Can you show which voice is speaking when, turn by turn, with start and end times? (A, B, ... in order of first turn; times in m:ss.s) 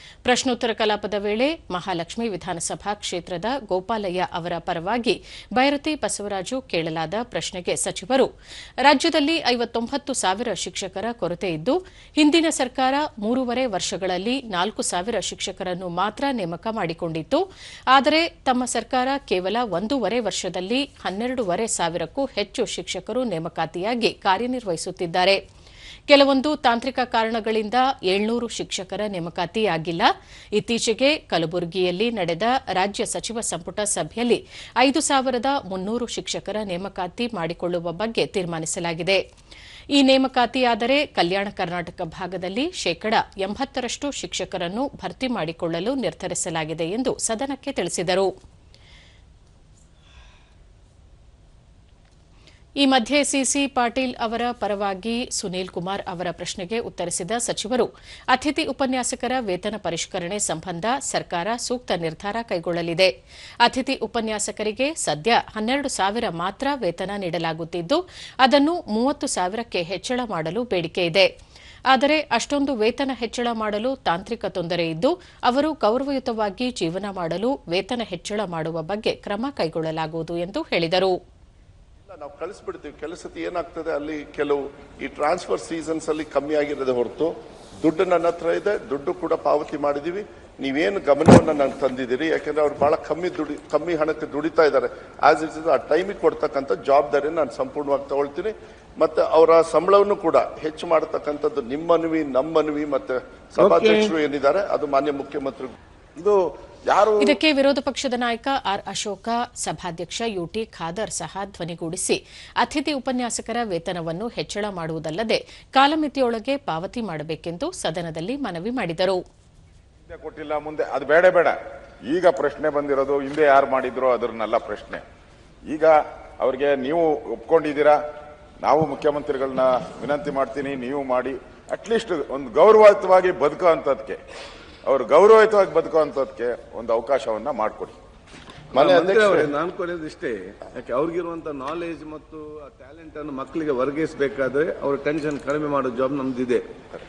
0:00.2-0:08.3 A
0:08.8-0:25.4 A
0:26.1-0:39.2 A
0:39.9-0:48.3 A
0:52.8-1:03.1 A
1:03.6-1:11.3 A
1:11.9-1:21.2 A
1:22.0-1:45.7 B
1:43.6-1:44.1 C
1:46.9-1:47.3 D
1:47.2-1:59.2 A
2:00.1-2:01.6 D
2:02.1-2:05.0 D
2:05.7-2:08.0 D
2:08.6-2:14.2 D
2:14.8-2:18.0 D
2:18.7-2:19.5 B
2:18.7-2:26.6 C